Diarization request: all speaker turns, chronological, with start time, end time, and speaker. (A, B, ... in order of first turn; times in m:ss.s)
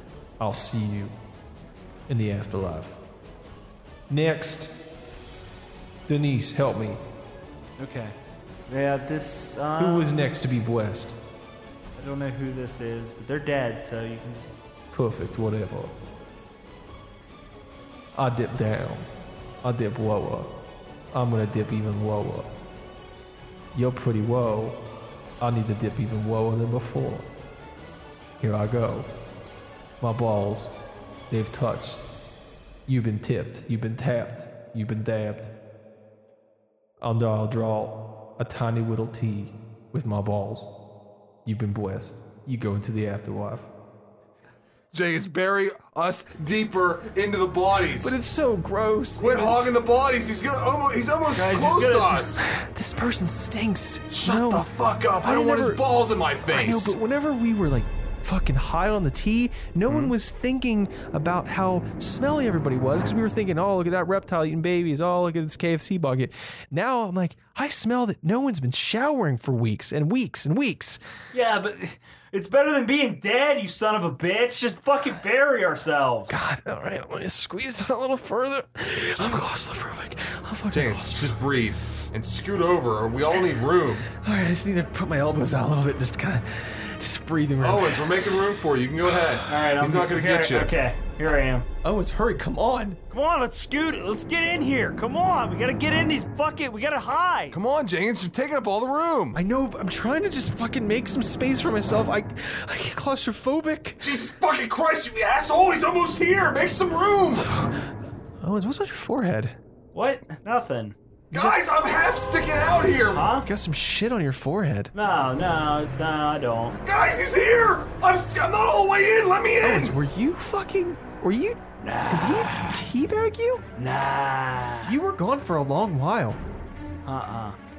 0:00.4-0:01.1 A
0:02.1-0:03.0 A
0:04.1-0:04.8 A
0:06.1-0:07.0 A
0:07.8-0:08.2 B
0:08.7-0:10.2 B
0:09.8-0:11.2 A
0:12.0-0:14.5 B
0:14.9-0:15.9 A
0:18.2-0:19.1 A
0:19.6-0:20.5 A
0:21.1-0:22.5 A
0:23.7-0:24.8 A
0:25.4-0:27.3 A
0:28.4-0:29.1 A
0:30.0-0:30.8 A
0:31.3-0:32.1 A
0:32.9-0:35.5 A
0:37.0-0:40.7 A
0:41.4-0:43.7 A
0:44.9-0:48.1 C
0:48.0-0:49.7 A
0:49.2-0:52.4 C
0:51.3-0:52.4 B
0:52.4-0:54.7 A
0:54.1-0:57.0 C
0:55.2-1:11.0 A
0:59.9-1:00.1 C
1:11.3-1:16.4 B
1:16.3-1:21.4 A
1:20.7-1:24.1 C
1:24.2-1:28.1 A
1:27.6-1:30.7 C
1:29.5-1:31.7 B
1:31.8-1:33.0 A
1:33.1-1:37.6 B
1:37.5-1:39.4 C
1:39.4-1:44.0 A
1:44.0-1:47.5 C
1:48.4-1:49.6 A
1:49.9-1:51.0 B
1:51.3-1:51.8 A
1:51.3-1:53.2 C
1:53.1-1:53.5 B
1:53.4-1:54.9 A
1:54.9-1:56.8 B
1:56.8-2:00.0 C
1:59.6-2:03.6 A
2:01.8-2:02.6 B
2:03.8-2:05.0 B
2:04.9-2:06.4 A
2:07.0-2:07.6 B